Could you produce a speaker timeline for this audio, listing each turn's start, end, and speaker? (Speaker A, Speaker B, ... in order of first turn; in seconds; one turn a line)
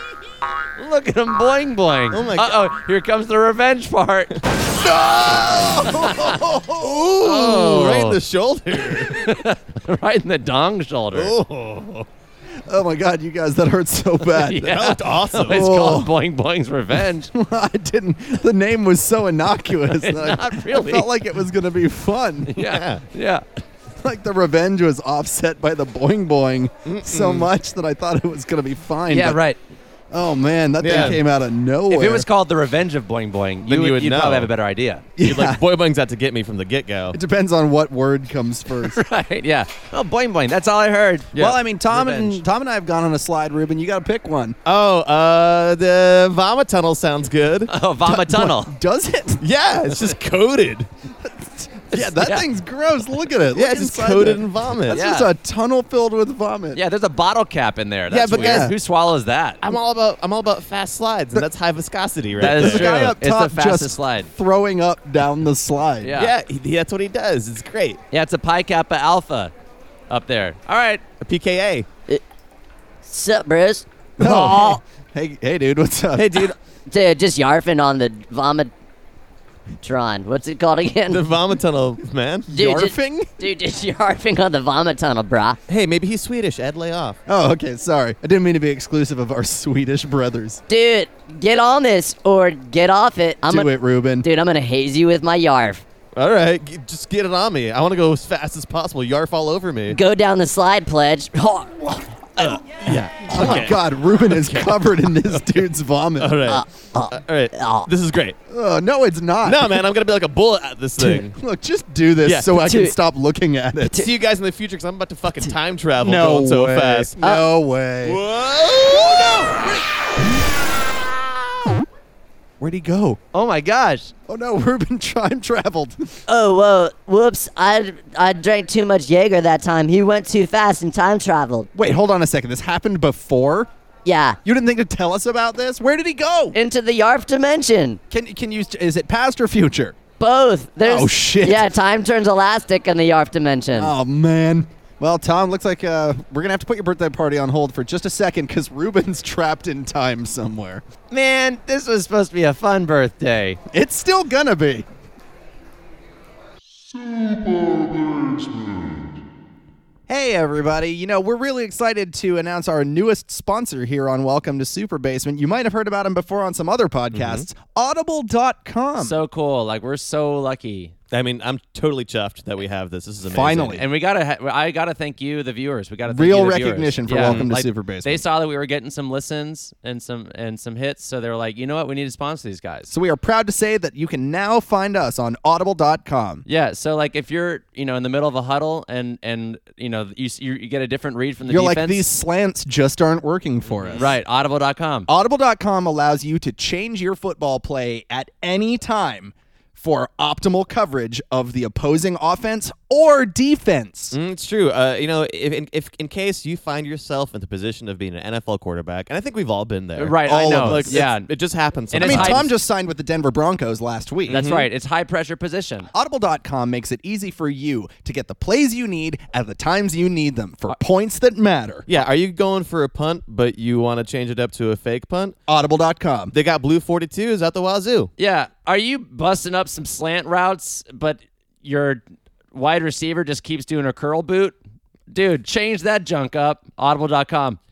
Speaker A: 0.8-4.4
Speaker B: 2.1-2.7
Speaker B: 4.3-6.2
Speaker C: 4.8-7.0
Speaker A: 5.9-6.4
Speaker B: 6.7-9.4
Speaker A: 7.2-8.2
Speaker A: 8.8-11.3
Speaker B: 11.1-12.1
Speaker C: 12.7-14.8
Speaker A: 14.3-17.3
Speaker B: 14.6-15.7
Speaker C: 15.4-16.1
Speaker C: 17.3-22.6
Speaker A: 19.9-21.1
Speaker A: 22.5-23.4
Speaker B: 22.6-23.0
Speaker C: 24.0-29.4
Speaker B: 26.9-27.5
Speaker A: 29.1-29.6
Speaker C: 30.1-32.3
Speaker B: 30.8-31.2
Speaker A: 30.9-31.2
Speaker A: 31.9-35.0
Speaker B: 33.6-34.5
Speaker C: 35.2-35.6
Speaker B: 35.2-37.2
Speaker C: 37.1-39.0
Speaker A: 38.8-41.4
Speaker B: 41.3-41.6
Speaker C: 41.4-44.6
Speaker A: 41.9-42.4
Speaker B: 44.6-47.7
Speaker A: 47.7-48.7
Speaker C: 48.1-49.5
Speaker B: 49.4-50.9
Speaker C: 51.6-56.8
Speaker A: 51.9-52.5
Speaker B: 53.5-55.0
Speaker A: 54.9-55.3
Speaker A: 56.7-59.6
Speaker B: 58.1-58.8
Speaker C: 58.3-58.7
Speaker B: 59.6-63.1
Speaker A: 62.4-64.3
Speaker C: 62.4-66.2
Speaker A: 66.0-66.3
Speaker B: 66.1-68.0
Speaker A: 68.1-69.5
Speaker A: 70.1-71.0
Speaker B: 71.2-71.9
Speaker D: 73.0-74.8
Speaker C: 74.2-76.5
Speaker B: 74.2-74.7
Speaker B: 76.1-76.5
Speaker D: 76.9-78.7
Speaker D: 79.8-81.2
Speaker B: 81.1-82.5
Speaker C: 82.5-83.3
Speaker D: 82.5-85.6
Speaker B: 85.7-87.2
Speaker C: 87.3-90.6
Speaker D: 90.7-95.8
Speaker C: 93.5-94.3
Speaker B: 96.2-100.0
Speaker D: 99.9-102.6
Speaker B: 102.8-105.6
Speaker C: 103.3-106.5
Speaker B: 106.2-108.4
Speaker D: 106.5-107.9
Speaker C: 108.5-109.8
Speaker B: 109.4-111.4
Speaker C: 111.0-114.1
Speaker B: 112.2-112.6
Speaker D: 112.5-113.0
Speaker B: 113.9-117.2
Speaker C: 116.0-118.2
Speaker D: 117.2-117.5
Speaker B: 118.0-119.5
Speaker C: 118.9-119.8
Speaker C: 122.6-123.2
Speaker A: 123.3-124.1
Speaker C: 124.3-126.2
Speaker D: 126.3-131.7
Speaker C: 131.8-133.7
Speaker D: 134.1-134.4
Speaker C: 134.4-136.6
Speaker D: 136.5-138.0
Speaker C: 138.1-140.0
Speaker D: 140.2-143.9
Speaker C: 140.8-141.7
Speaker C: 143.8-150.8
Speaker A: 151.1-153.6
Speaker C: 153.7-154.9
Speaker C: 160.1-169.2
Speaker B: 167.1-167.5
Speaker A: 169.0-170.9
Speaker B: 171.1-173.8
Speaker C: 173.3-173.8
Speaker A: 173.8-182.9
Speaker C: 176.1-178.2
Speaker B: 177.1-177.5
Speaker C: 182.9-186.4
Speaker A: 186.5-192.1
Speaker C: 191.5-194.2
Speaker A: 193.9-195.1
Speaker C: 195.1-204.2
Speaker B: 204.1-212.5
Speaker A: 210.0-211.3
Speaker C: 210.2-211.1
Speaker A: 211.9-212.4
Speaker C: 212.0-214.4
Speaker A: 214.3-215.9
Speaker B: 214.3-214.7
Speaker C: 215.9-221.9
Speaker B: 221.9-225.4
Speaker C: 225.5-226.3
Speaker B: 226.3-228.1
Speaker A: 228.2-232.0
Speaker A: 232.5-234.6
Speaker A: 235.1-237.6